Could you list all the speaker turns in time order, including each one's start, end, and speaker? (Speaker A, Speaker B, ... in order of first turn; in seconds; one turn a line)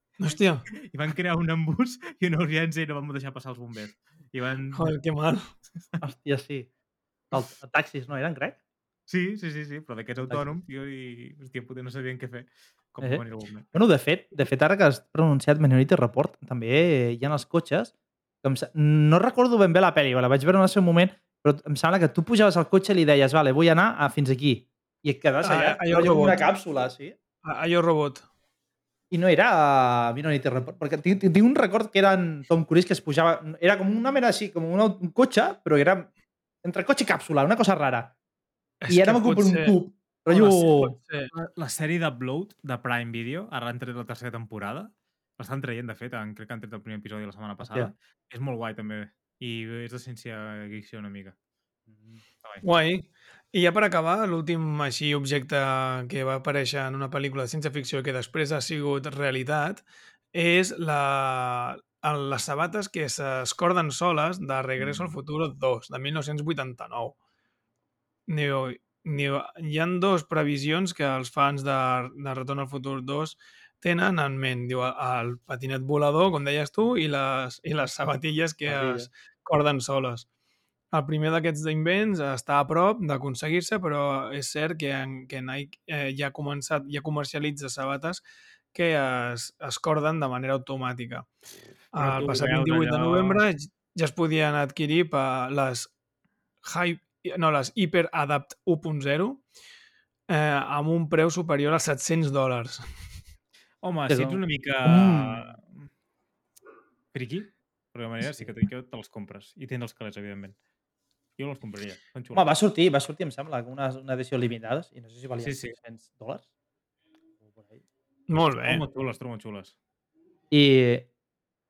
Speaker A: 0.2-0.7
Speaker B: 0.7-4.9
Speaker A: 4.7-5.5
Speaker C: 6.0-6.7
Speaker C: 7.3-8.6
Speaker B: 9.1-13.7
Speaker C: 10.3-10.5
Speaker C: 13.0-17.9
Speaker C: 18.4-27.1
Speaker A: 25.4-26.5
Speaker A: 27.4-28.2
Speaker C: 29.1-36.1
Speaker C: 36.6-38.1
Speaker A: 38.8-39.8
Speaker C: 38.9-41.0
Speaker A: 40.3-41.3
Speaker B: 41.3-51.3
Speaker C: 47.6-47.9
Speaker C: 51.9-52.2
Speaker A: 52.6-59.8
Speaker A: 60.3-67.2
Speaker A: 68.3-80.3
Speaker C: 78.6-79.1
Speaker A: 80.9-91.3
Speaker A: 91.9-95.9
Speaker B: 92.0-93.4
Speaker A: 96.6-99.4
Speaker A: 100.3-102.9
Speaker B: 103.8-105.7
Speaker C: 104.1-105.5
Speaker B: 107.1-110.5
Speaker B: 111.4-112.5
Speaker C: 112.3-116.4
Speaker B: 115.4-115.8
Speaker C: 117.4-117.8
Speaker A: 118.3-118.8
Speaker B: 118.6-119.7
Speaker C: 120.5-121.1